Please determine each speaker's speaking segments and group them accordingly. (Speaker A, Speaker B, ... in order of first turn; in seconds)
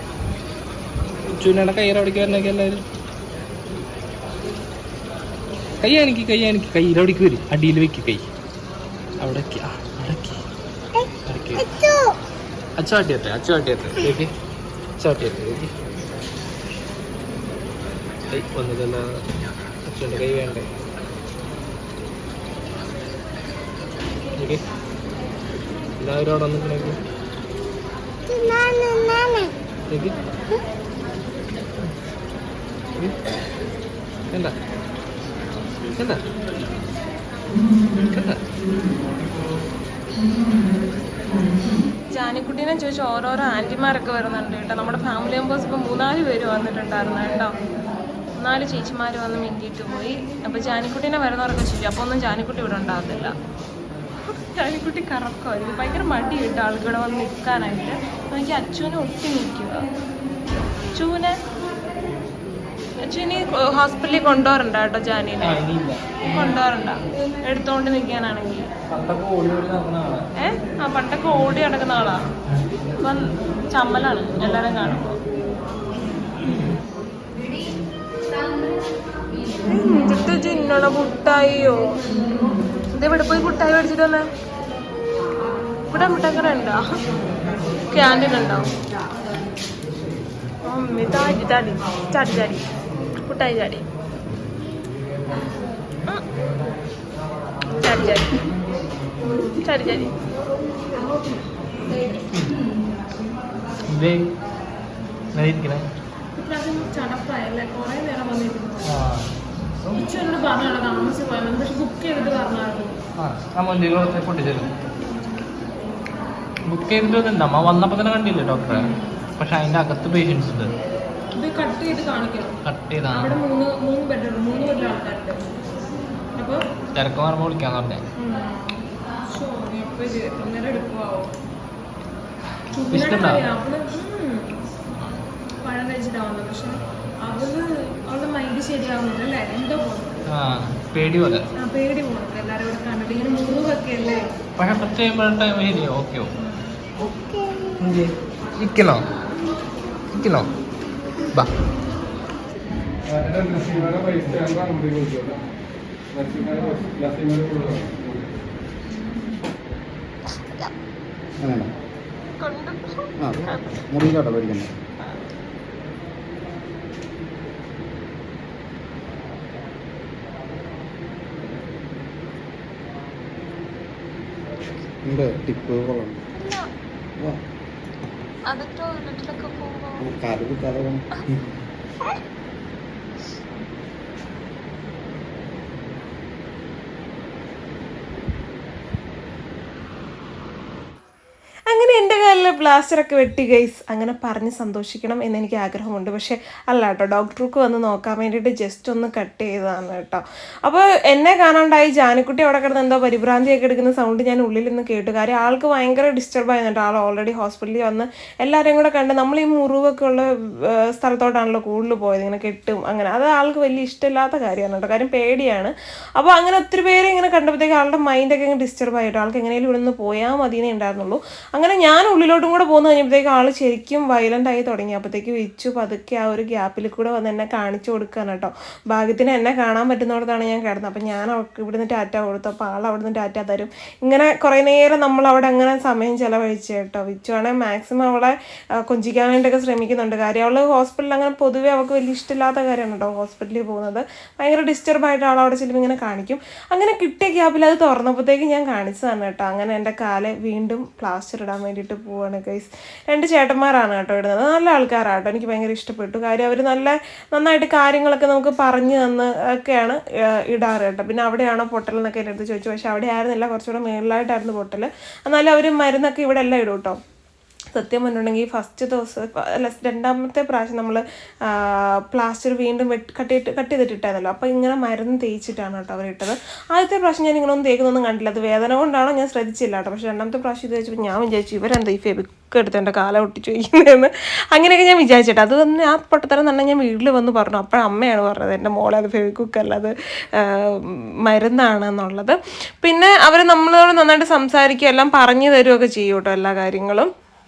Speaker A: 1.3-2.8, 5.8-8.3, 9.2-10.4, 11.2-11.7, 12.8-14.3, 15.0-15.7, 18.3-19.2, 19.8-20.7, 24.4-24.6, 26.0-27.0, 29.9-30.1, 35.9-36.2, 38.0-38.4, 65.4-66.5, 68.9-70.2, 72.5-73.3, 76.4-76.8, 102.0-102.6, 103.9-104.3, 105.3-105.9, 108.8-109.3, 113.2-114.7, 116.7-120.7, 122.6-123.4, 126.9-128.0, 132.9-133.5, 140.3-141.4, 144.6-146.3, 147.8-149.1, 150.1-150.5
Speaker B: 28.6-29.4, 153.3-155.4, 157.0-158.0
Speaker C: 42.1-47.5, 48.4-53.3, 54.2-59.9, 60.9-61.4, 63.0-65.6, 66.3-68.7, 70.4-72.2, 73.0-75.2, 79.7-82.0, 82.9-84.3, 85.9-86.8, 87.9-88.7, 90.6-93.8, 97.8-98.5, 99.2-100.1, 106.3-109.0, 109.9-113.0, 118.7-119.1, 121.4-122.6, 123.1-125.4, 126.3-126.6, 128.2-131.3, 132.7-135.1, 135.6-140.2, 141.6-144.2, 146.4-146.8, 156.2-157.0, 162.4-163.9, 176.3-176.7, 178.5-180.1, 191.7-210.3, 210.9-267.0, 267.7-297.1
Speaker D: 161.4-161.7, 163.2-164.7, 175.0-176.2, 180.0-181.5